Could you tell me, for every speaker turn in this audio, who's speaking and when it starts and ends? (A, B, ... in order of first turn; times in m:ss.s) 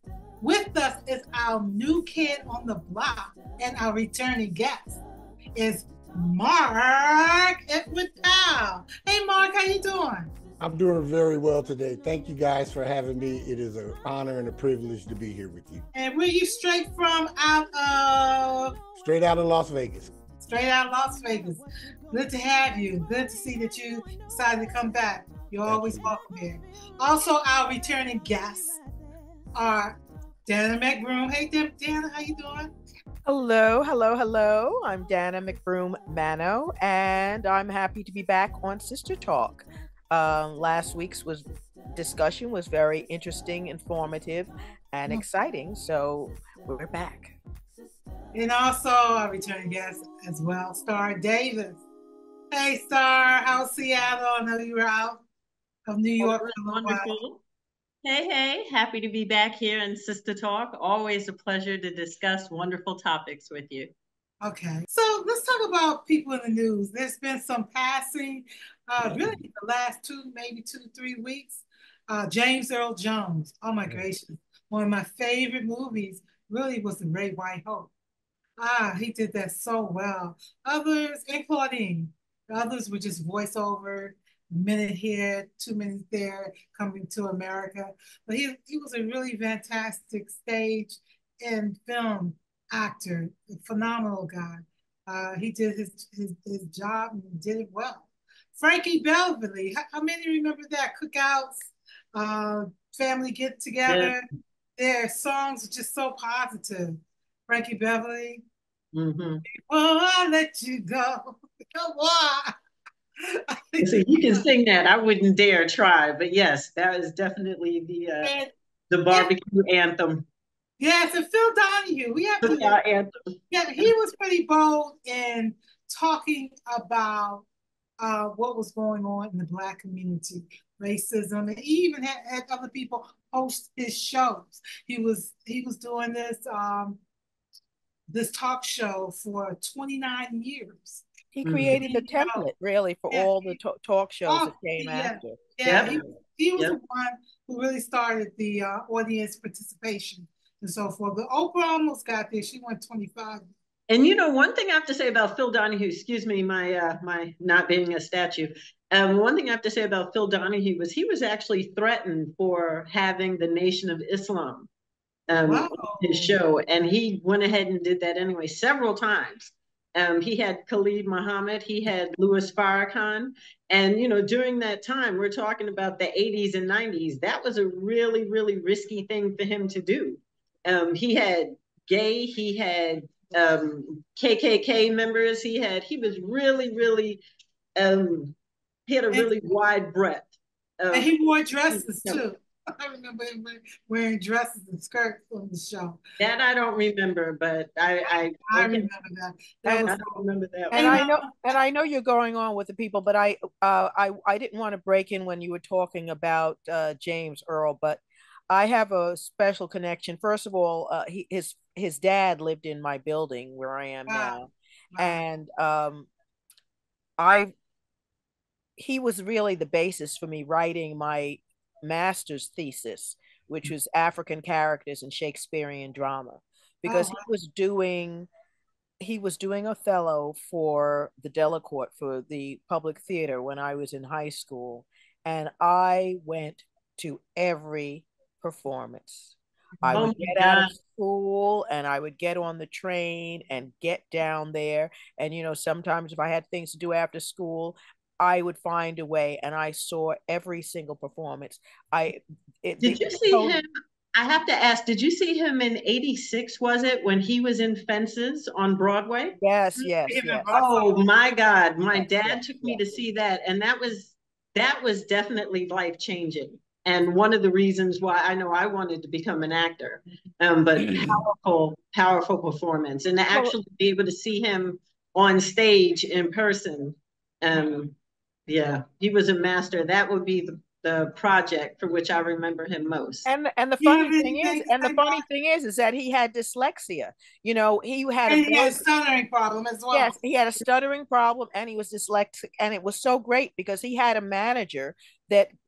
0:00.4-0:05.0 A
0:05.5-0:10.3 A
0:10.6-0:15.8 B
0:15.9-0:18.8 A
0:19.0-0:20.1 B
0:20.4-0:28.8 A
0:25.7-0:26.1 B
0:29.5-0:32.7 A
0:33.2-0:47.4 C
0:48.3-0:51.8 A
0:52.5-0:55.2 A
0:55.9-0:57.2 A
0:56.2-0:57.4 D
0:58.0-1:03.9 D
1:04.4-1:17.9 A
1:09.0-1:09.4 B
1:18.6-1:44.2 A
1:43.9-1:44.1 D
1:44.8-1:48.4 A
1:48.9-1:49.4 D
1:49.5-1:52.5 A
1:53.3-1:54.4 A
1:53.8-1:58.3 D
1:58.2-1:58.5 A
1:58.9-2:00.2 D
2:00.8-2:02.8 A
2:02.4-2:03.1 D
2:03.5-2:07.4 A
2:08.0-2:17.0 A
2:18.1-2:21.0 A
2:21.3-2:25.4 C
2:21.4-2:21.8 D
2:21.7-2:22.5 A
2:23.1-2:23.6 A
2:24.2-2:33.5 A
2:25.6-2:26.0 D
2:33.9-2:44.7 D
2:45.3-3:07.2 D
2:45.4-2:46.4 A
3:07.8-3:08.3 D
3:08.9-3:11.1 D
3:09.1-3:09.4 A
3:10.9-3:16.0 A
3:11.7-3:12.2 D
3:16.2-3:18.9 D
3:18.1-3:20.1 A
3:19.6-3:21.0 D
3:20.7-3:21.2 A
3:20.7-3:36.1 C
3:34.1-3:34.4 A
3:34.9-3:35.2 A
3:37.2-3:37.5 C
3:38.8-3:48.3 C
3:46.8-3:47.2 A
3:49.0-4:13.6 C
3:59.8-4:00.1 A
3:59.9-4:00.7 D
4:12.8-4:19.9 D
4:19.4-4:20.5 C
4:20.1-4:21.0 A
4:20.5-4:37.9 D
4:21.9-4:23.0 C
4:38.5-4:43.3 D
4:43.2-4:48.8 C
4:43.8-4:45.2 A
4:48.3-4:50.2 A
4:49.9-4:55.5 C